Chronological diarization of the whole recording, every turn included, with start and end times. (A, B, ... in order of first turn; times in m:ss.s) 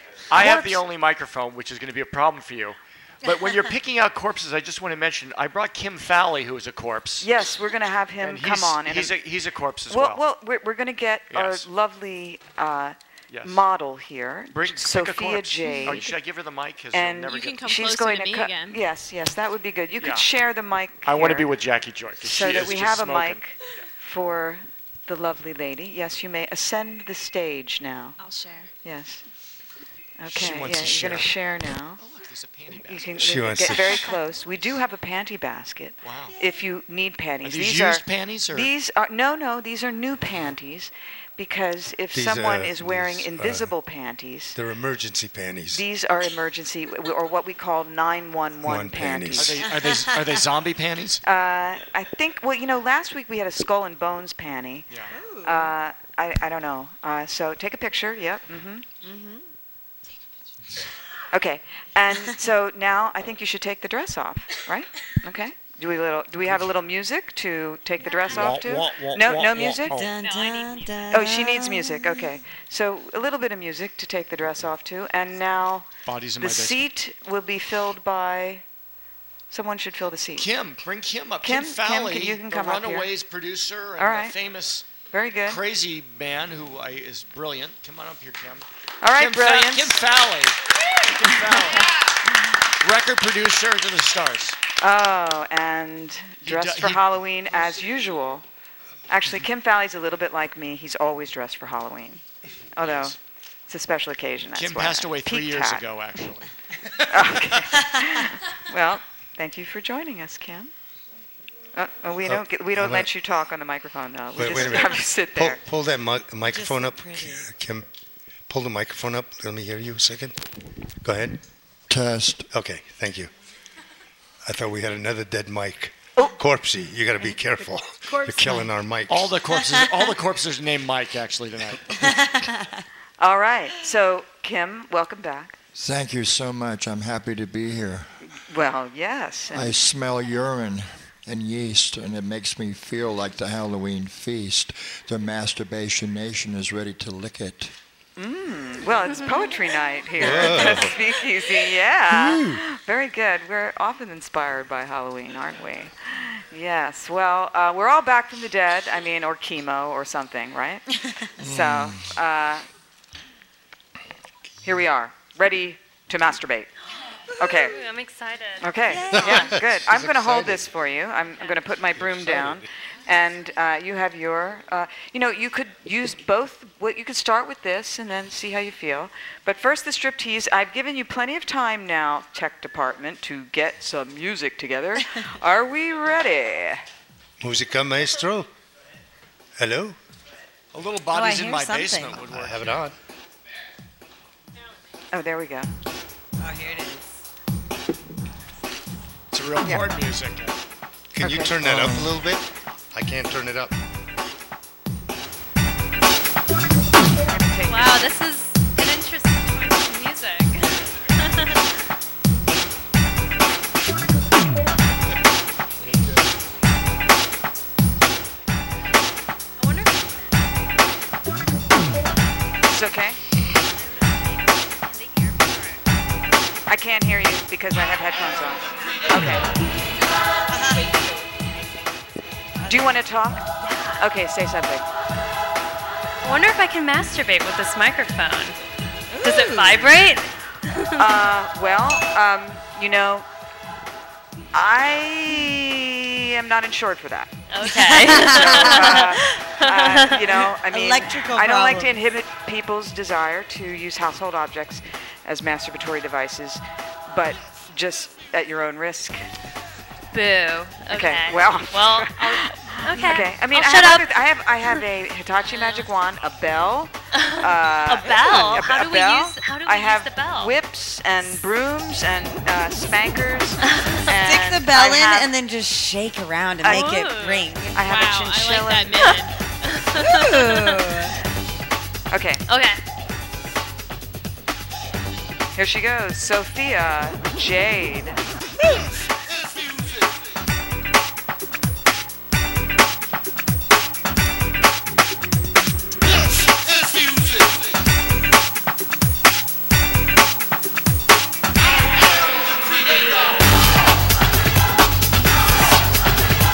0:00.3-0:07.3 A
0:00.3-0:00.8 B
0:07.2-0:09.1 B
0:08.2-0:10.2 A
0:09.9-0:16.1 B
0:11.3-0:11.6 A
0:13.3-0:13.6 A
0:14.5-0:17.6 A
0:16.9-0:21.5 B
0:17.3-0:18.8 C
0:20.0-0:20.3 A
0:21.0-0:23.8 A
0:22.2-0:28.2 B
0:28.2-0:28.7 C
0:28.8-0:29.2 B
0:30.2-0:32.0 B
0:30.3-0:31.3 A
0:32.0-0:34.1 A
0:32.7-0:44.6 B
0:33.2-0:34.0 D
0:36.0-0:36.3 A
0:37.4-0:38.7 A
0:42.1-0:43.7 D
0:44.6-0:45.8 D
0:45.7-0:49.7 B
0:48.6-0:49.6 D
0:49.4-0:51.2 A
0:51.2-0:54.9 B
0:55.1-0:55.7 E
0:55.4-0:58.8 B
0:59.0-0:59.4 E
1:01.3-1:10.0 B
1:08.3-1:10.1 A
1:09.9-1:12.4 E
1:10.2-1:11.0 F
1:11.1-1:15.9 B
1:16.0-1:16.9 A
1:16.4-1:18.6 B
1:19.5-1:20.5 B
1:20.4-1:24.9 A
1:21.4-1:23.1 B
1:24.0-1:24.3 B
1:25.1-1:25.6 B
1:25.5-1:30.6 A
1:29.0-1:30.0 B
1:31.1-1:31.9 A
1:32.8-1:34.6 A
1:34.8-1:38.4 B
1:36.4-1:37.0 A
1:39.1-1:42.2 B
1:42.8-1:43.2 B
1:42.8-1:43.1 A
1:43.7-1:45.8 B
1:44.5-1:46.5 A
1:47.1-1:50.7 B
1:51.7-1:55.6 B
1:52.2-1:53.1 D
1:54.4-1:57.8 D
1:56.5-1:57.5 E
1:58.5-2:00.3 D
2:01.0-2:01.4 D
2:01.9-2:02.5 G
2:02.5-2:03.3 D
2:04.4-2:09.3 D
2:09.1-2:12.3 A
2:12.2-2:12.6 E
2:13.2-2:15.6 B
2:15.7-2:18.1 G
2:18.5-2:19.8 B
2:19.5-2:27.7 G
2:28.2-2:40.8 B
2:30.2-2:31.0 D
2:41.4-2:42.6 B
2:41.4-2:42.1 G
2:44.6-2:46.7 B
2:47.4-2:47.8 B
2:47.6-2:48.7 F
2:48.6-3:06.8 B
2:48.9-2:49.6 E
2:52.2-2:52.5 A
3:07.4-3:08.5 D
3:09.6-3:10.0 D
3:10.7-3:12.8 A
3:11.1-3:12.2 E
3:12.2-3:12.9 D
3:15.1-3:15.7 B
3:16.4-3:17.0 E
3:19.3-3:20.5 A
3:21.1-3:23.7 D
3:21.2-3:21.6 B
3:21.6-3:22.1 G
3:27.3-3:28.2 B
3:27.6-3:31.8 F
3:39.6-3:40.5 F
3:42.7-3:43.2 B
3:43.9-3:45.9 F
3:46.7-3:49.5 B
3:50.5-3:50.8 E
3:52.6-3:53.0 E
3:52.6-3:54.8 B
3:53.6-3:54.0 F
3:56.2-3:58.6 F
3:59.1-3:59.9 E
3:59.2-4:01.2 F
4:01.0-4:03.2 B
4:04.5-4:07.3 B
4:07.5-4:10.3 F
4:07.6-4:09.2 E
4:08.1-4:19.2 B
4:10.2-4:12.0 E
4:20.1-4:24.2 F
4:20.9-4:35.3 B
4:25.5-4:25.8 F
4:27.1-4:30.6 F
4:33.6-4:34.1 F
4:34.1-4:37.8 E
4:36.6-4:37.1 B
4:36.7-4:37.1 C
4:36.9-4:37.4 F
4:37.7-4:39.1 B
4:37.8-4:39.4 C
4:39.0-4:40.9 F
4:39.9-4:41.2 E
4:42.1-4:42.4 B
4:42.5-4:42.8 F
4:45.6-4:48.2 B